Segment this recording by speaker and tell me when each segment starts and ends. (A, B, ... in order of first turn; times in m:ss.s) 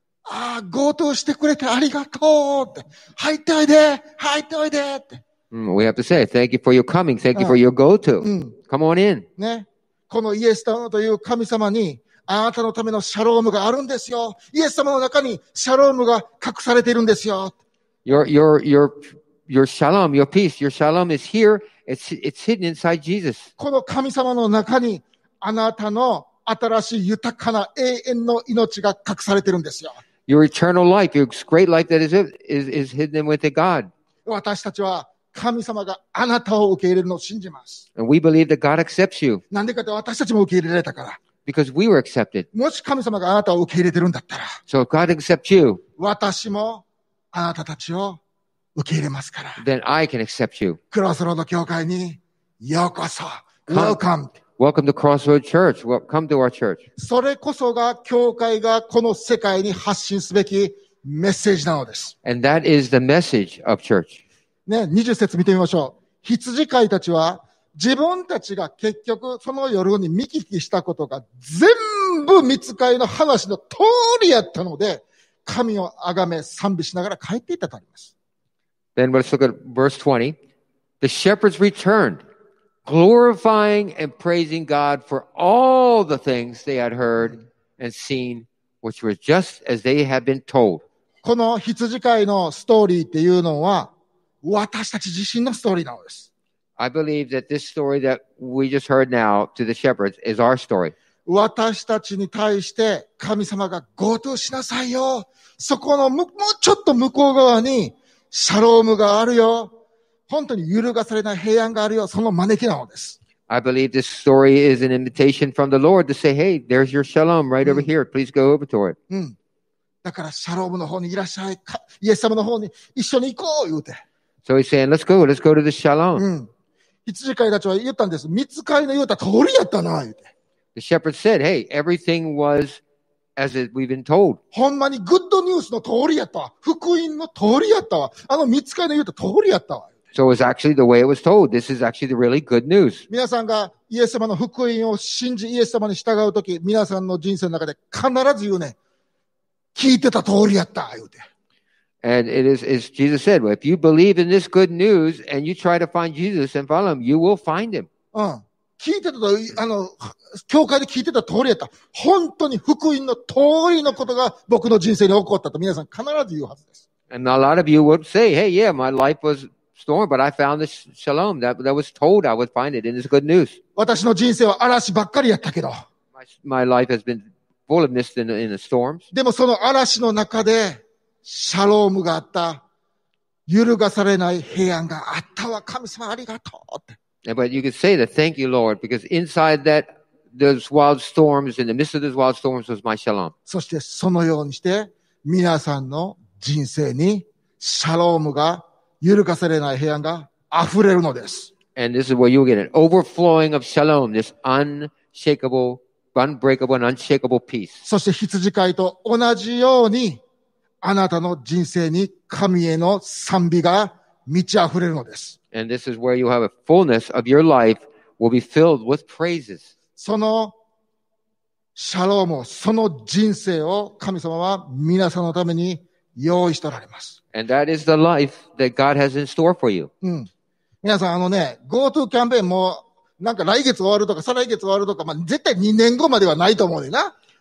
0:00.2-0:05.2 A
0:05.5-0:09.2 B
0:08.2-0:08.5 A
0:09.4-0:17.6 A
0:18.0-0:23.5 B
0:23.6-0:30.0 A
0:30.3-0:33.9 B
0:34.2-0:37.8 A
0:38.0-0:39.4 B
0:39.5-0:41.2 A
0:41.4-0:42.5 B
0:42.5-0:44.6 A
0:44.7-0:45.8 B
0:46.0-0:48.2 A
0:48.7-0:49.6 A
0:49.6-0:50.8 B
0:50.9-0:54.3 A
0:53.7-0:54.0 B
0:54.6-0:56.8 B
0:57.0-1:02.1 A
1:02.2-1:04.2 B
1:04.7-1:18.1 A
1:19.0-1:20.4 B
1:21.0-1:22.2 B
1:22.8-1:30.8 B
1:31.2-1:33.9 A
1:34.4-1:36.3 A
1:36.8-1:40.9 B
1:41.2-1:49.7 A
1:50.3-1:53.2 A
1:53.5-1:59.0 B
1:57.6-1:57.9 A
1:59.1-1:59.4 A
2:00.0-2:04.0 A
2:04.4-2:06.2 B
2:06.1-2:06.5 A
2:07.0-2:10.3 A
2:10.7-2:12.8 B
2:13.4-2:14.4 B
2:14.5-2:20.0 A
2:20.1-2:23.0 B
2:23.1-2:28.8 A
2:29.7-2:31.2 A
2:32.0-2:37.9 B
2:38.1-2:46.8 A
2:47.1-2:53.6 B
2:53.8-2:55.8 A
2:56.2-2:59.0 B
2:59.1-3:02.6 A
3:03.5-3:07.0 A
3:07.2-3:13.3 B
3:13.5-3:21.5 A
3:21.8-3:27.8 B
3:27.8-3:30.2 A
3:30.8-3:35.4 A
3:35.5-3:39.7 B
3:40.0-3:40.5 A
3:41.7-3:47.2 A
3:47.3-3:49.9 B
3:50.0-3:50.3 A
3:50.8-3:57.1 A